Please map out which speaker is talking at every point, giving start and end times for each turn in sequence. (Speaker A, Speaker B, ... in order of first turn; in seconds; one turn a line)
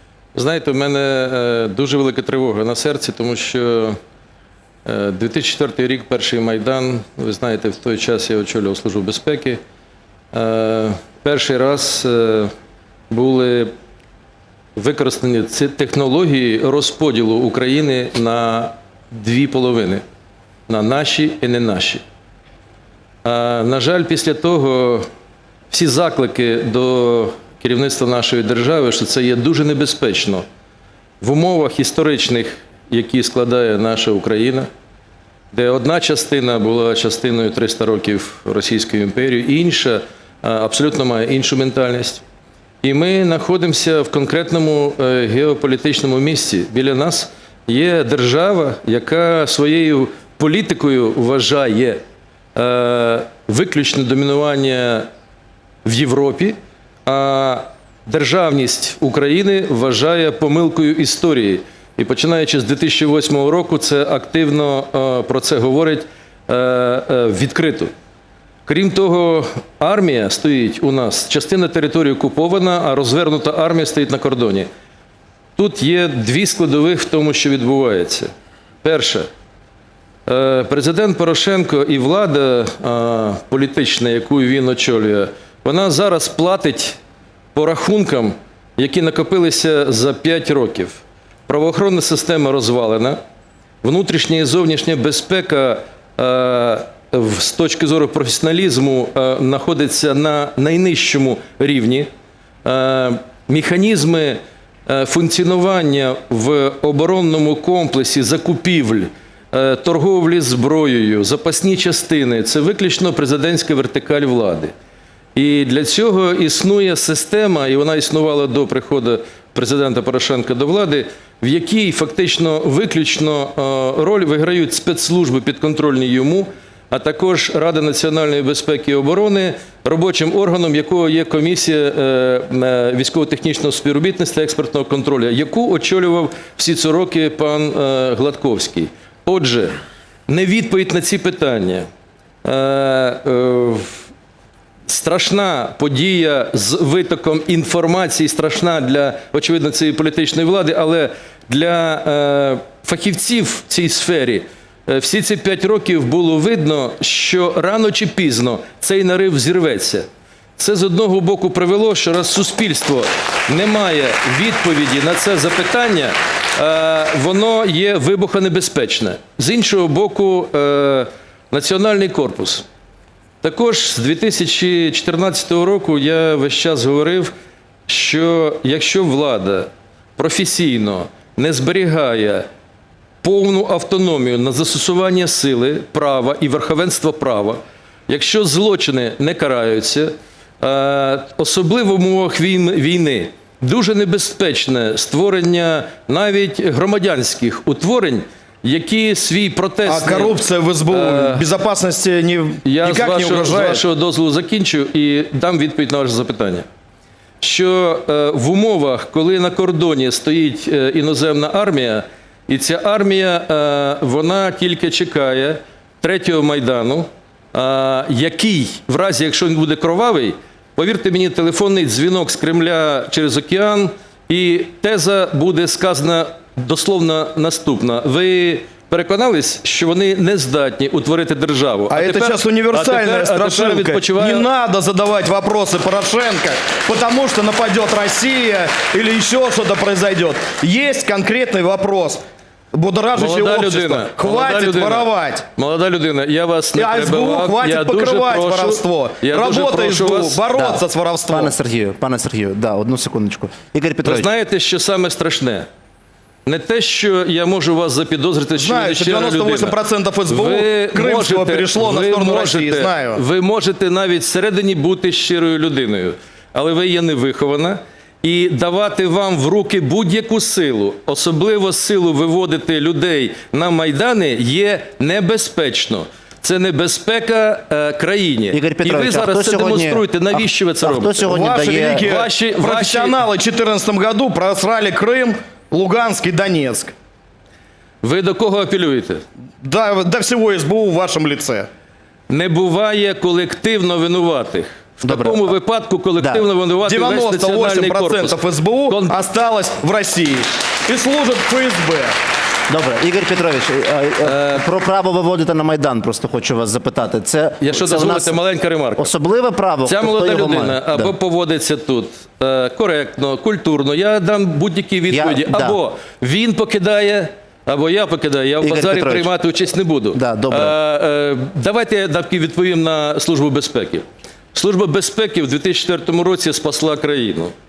Speaker A: 0.3-3.9
Speaker A: 4.9-9.6
Speaker A: 10.3-12.5
Speaker A: 13.1-13.7
Speaker A: 14.8-18.7
Speaker A: 19.2-20.0
Speaker A: 20.7-22.0
Speaker A: 23.3-25.0
Speaker A: 25.7-30.4
Speaker A: 31.2-34.7
Speaker A: 35.5-42.1
Speaker A: 42.8-52.0
Speaker A: 52.6-55.0
Speaker A: 55.9-56.5
Speaker A: 57.1-57.6
Speaker A: 58.1-66.0
Speaker A: 66.5-67.8
Speaker A: 68.7-74.6
Speaker A: 75.6-78.2
Speaker A: 78.8-79.2
Speaker A: 80.3-86.8
Speaker A: 87.5-90.9
Speaker A: 91.5-93.1
Speaker A: 93.8-96.2
Speaker A: 97.4-102.0
Speaker A: 102.7-104.3
Speaker A: 104.9-109.1
Speaker A: 109.6-114.6
Speaker A: 115.4-123.5
Speaker A: 124.0-139.7
Speaker A: 140.3-141.8
Speaker A: 142.5-143.2
Speaker A: 144.9-151.8
Speaker A: 152.7-154.4
Speaker A: 154.9-160.0
Speaker A: 160.6-163.0
Speaker A: 163.5-166.1
Speaker A: 167.2-170.9
Speaker A: 171.5-172.6
Speaker A: 173.4-177.3
Speaker A: 177.9-179.6
Speaker A: 180.2-182.4
Speaker A: 183.2-187.6
Speaker A: 188.1-190.1
Speaker A: 190.6-200.3
Speaker B: 199.9-203.8
Speaker A: 200.9-201.4
Speaker A: 202.7-206.6
Speaker A: 207.4-234.4
Speaker B: 231.9-242.2
Speaker B: 242.7-245.4
Speaker A: 243.2-250.4
Speaker B: 246.7-251.5
Speaker C: 250.6-254.3
Speaker A: 254.1-255.7
Speaker A: 256.5-259.8
Speaker B: 258.6-263.2
Speaker A: 260.3-281.3
Speaker C: 278.5-282.1
Speaker B: 281.2-286.9
Speaker A: 282.0-283.1
Speaker A: 288.0-289.2
Speaker B: 289.6-291.7
Speaker A: 292.3-298.4
Speaker C: 295.0-295.5
Speaker C: 296.2-296.4
Speaker B: 296.8-302.1
Speaker A: 298.9-299.2
Speaker C: 302.7-308.4
Speaker A: 307.8-309.1
Speaker C: 309.0-311.1
Speaker A: 309.9-324.0
Speaker C: 315.1-315.8
Speaker C: 318.6-319.4
Speaker C: 320.1-320.8
Speaker A: 324.6-327.5